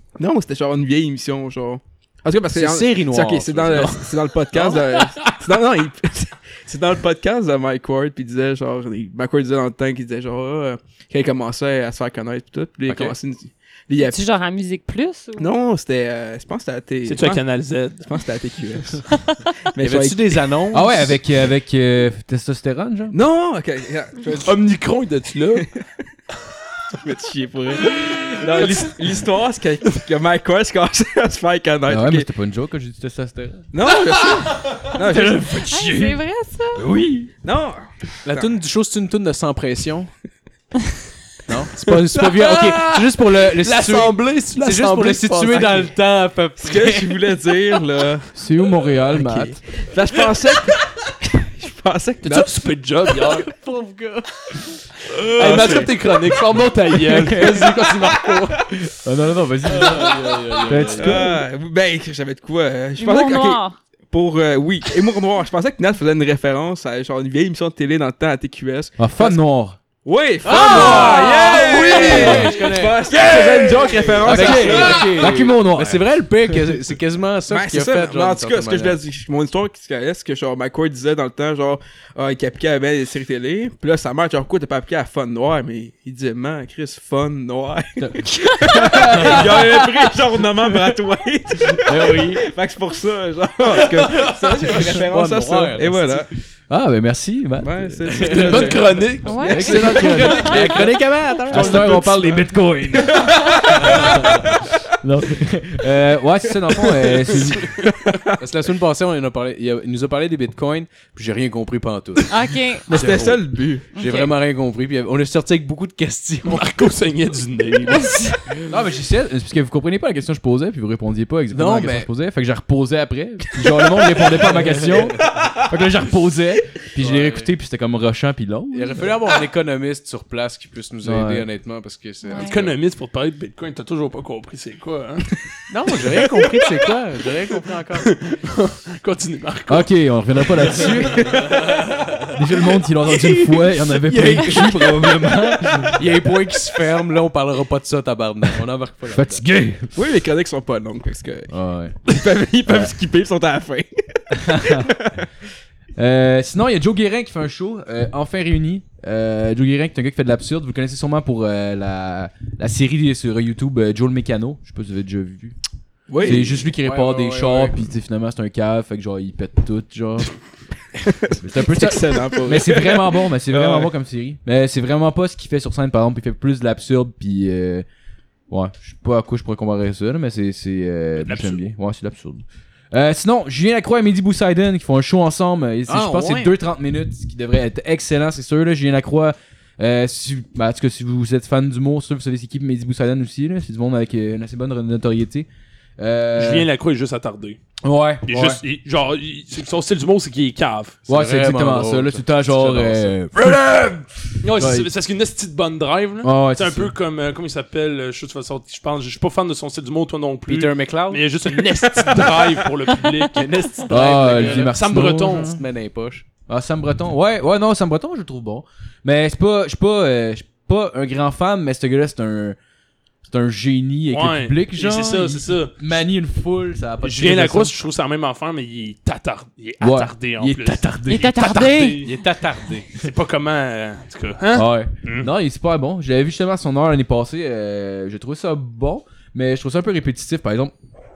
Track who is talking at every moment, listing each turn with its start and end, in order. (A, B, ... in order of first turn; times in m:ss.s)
0:00.2-0:14.2 A
0:02.5-0:04.1 B
0:04.5-0:05.4 C
0:12.9-0:13.2 B
0:14.0-0:15.5 D
0:15.4-0:17.4 A
0:17.1-0:18.2 C
0:18.0-0:20.5 A
0:19.1-0:19.6 D
0:19.8-0:21.2 B
0:20.7-0:23.2 E
0:23.1-0:24.6 A
0:24.4-0:25.7 C
0:26.9-0:32.3 A
0:28.5-0:28.9 C
0:31.9-0:33.7 E
0:33.7-0:35.7 A
0:34.3-0:34.8 C
0:35.0-0:36.2 E
0:35.7-0:36.9 D
0:36.8-0:37.3 E
0:37.3-0:38.5 A
0:38.2-0:40.1 B
0:41.5-0:47.3 B
0:42.1-0:45.9 C
0:46.6-0:48.3 A
0:48.4-0:49.6 E
0:49.1-0:52.7 A
0:52.2-0:53.5 C
0:53.3-0:54.6 B
0:55.3-0:56.3 A
0:55.3-0:58.8 C
0:55.3-0:55.9 E
0:57.0-0:57.7 E
0:57.6-0:58.4 A
0:58.8-1:01.4 E
0:59.6-1:01.4 B
1:01.0-1:09.4 A
1:03.0-1:03.8 D
1:09.0-1:09.8 E
1:10.0-1:15.2 A
1:10.4-1:13.7 B
1:10.7-1:12.4 D
1:12.0-1:12.5 E
1:13.1-1:16.1 E
1:14.2-1:19.0 B
1:17.5-1:36.3 A
1:28.0-1:30.1 E
1:29.2-1:29.6 B
1:31.7-1:32.4 E
1:34.0-1:36.3 B
1:36.7-1:38.7 E
1:37.6-1:39.7 A
1:38.1-1:38.8 B
1:38.2-1:40.2 C
1:39.2-1:40.5 D
1:39.4-1:42.4 B
1:39.4-1:47.9 E
1:43.8-1:44.5 B
1:46.9-1:48.0 C
1:48.4-1:56.7 B
1:52.3-1:52.9 D
1:52.9-1:53.9 A
1:54.0-1:54.3 D
1:56.4-1:58.1 C
1:57.9-1:58.5 D
1:58.7-2:09.1 E
2:01.5-2:02.1 B
2:04.4-2:05.1 B
2:07.0-2:07.5 B
2:08.7-2:12.8 B
2:11.0-2:11.5 E
2:12.2-2:12.6 D
2:12.4-2:15.4 C
2:15.7-2:18.1 B
2:18.0-2:19.9 C
2:19.7-2:21.6 E
2:20.8-2:22.4 B
2:22.2-2:26.0 E
2:23.0-2:29.4 B
2:29.1-2:30.0 E
2:30.0-2:31.5 A
2:31.5-2:32.0 E
2:32.1-2:35.3 A
2:32.7-2:32.9 E
2:34.3-2:34.9 E
2:36.0-2:45.6 E
2:46.1-2:46.6 A
2:46.2-2:47.8 B
2:46.2-2:50.3 E
2:51.3-2:53.9 A
2:51.4-2:57.9 E
2:58.5-3:15.5 E
3:01.2-3:01.6 C
3:05.9-3:06.5 B
3:16.0-3:16.7 E
3:16.4-3:17.6 C
3:17.8-3:18.6 E
3:18.2-3:21.0 C
3:21.1-3:24.9 E
3:21.1-3:23.2 B
3:24.4-3:33.4 C
3:26.2-3:26.9 E
3:30.5-3:31.2 B
3:33.3-3:36.2 B
3:33.9-3:35.6 E
3:34.0-3:35.6 C
3:36.5-3:42.6 E
3:43.2-3:47.7 E
3:44.1-3:45.7 C
3:47.0-3:52.1 C
3:49.8-3:51.7 E
3:51.1-3:52.1 D
3:52.0-3:52.9 B
3:52.9-3:55.3 C
3:54.5-4:00.7 E